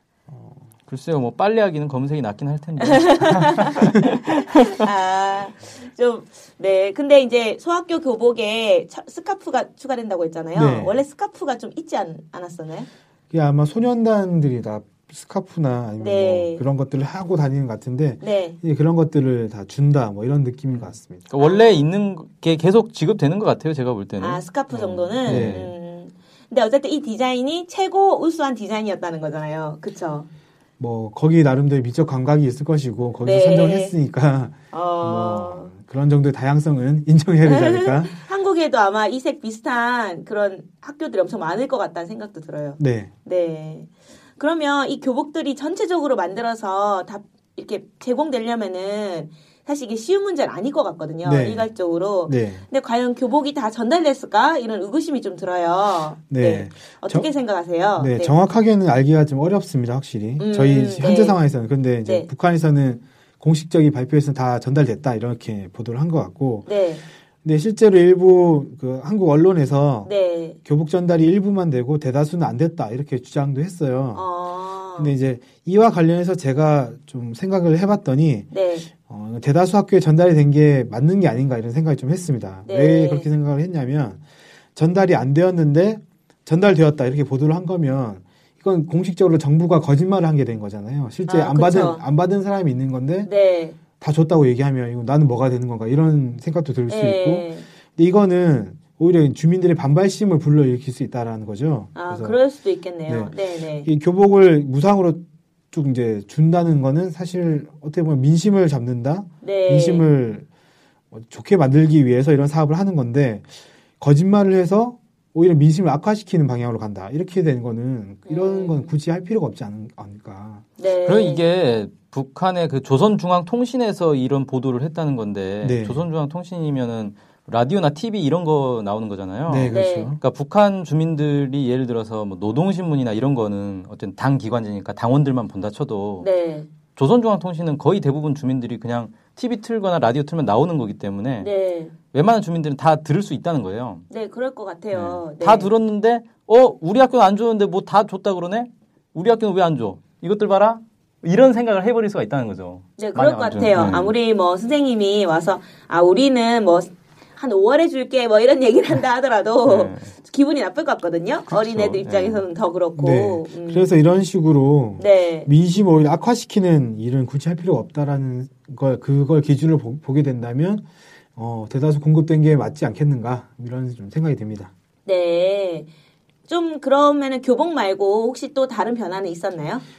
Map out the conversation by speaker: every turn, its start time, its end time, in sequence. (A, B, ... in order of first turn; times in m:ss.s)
0:00.3-0:00.7 A
0:00.9-0:04.8 B
0:02.8-0:12.9 C
0:10.5-0:11.0 A
0:13.3-0:21.3 A
0:16.0-0:16.6 C
0:18.2-0:18.6 C
0:20.8-0:25.7 B
0:21.4-0:21.9 C
0:24.2-0:30.3 C
0:25.2-0:25.7 A
0:30.8-0:38.2 A
0:33.2-0:34.0 C
0:34.7-0:35.7 C
0:37.4-0:58.4 C
0:42.8-0:43.1 A
0:51.2-0:51.7 A
0:52.3-0:52.6 A
0:56.3-0:57.3 A
0:58.0-1:06.7 A
1:00.4-1:01.4 C
1:06.7-1:07.0 C
1:07.4-1:10.1 A
1:10.1-1:10.6 C
1:10.6-1:14.3 A
1:14.1-1:15.2 C
1:15.0-1:24.2 A
1:18.5-1:18.9 C
1:22.7-1:23.3 C
1:24.7-1:33.3 A
1:31.3-1:32.0 C
1:33.3-1:33.8 C
1:34.0-1:42.4 A
1:36.9-1:37.7 C
1:42.0-1:43.9 C
1:43.1-1:50.5 A
1:49.4-1:50.1 C
1:51.1-2:00.7 A
1:58.3-1:58.9 C
2:00.8-2:01.4 C
2:01.0-2:16.3 B
2:05.6-2:06.1 A
2:09.5-2:10.2 A
2:09.7-2:10.1 C
2:16.2-2:16.7 C
2:17.0-2:21.5 B
2:21.4-2:22.0 C
2:22.1-2:24.0 B
2:24.1-2:25.7 C
2:24.9-2:34.2 B
2:33.0-2:43.9 C
2:39.6-2:40.1 B
2:41.5-2:42.4 B
2:43.0-2:54.7 A
2:45.0-2:45.5 C
2:55.0-2:55.9 C
2:56.5-2:59.8 C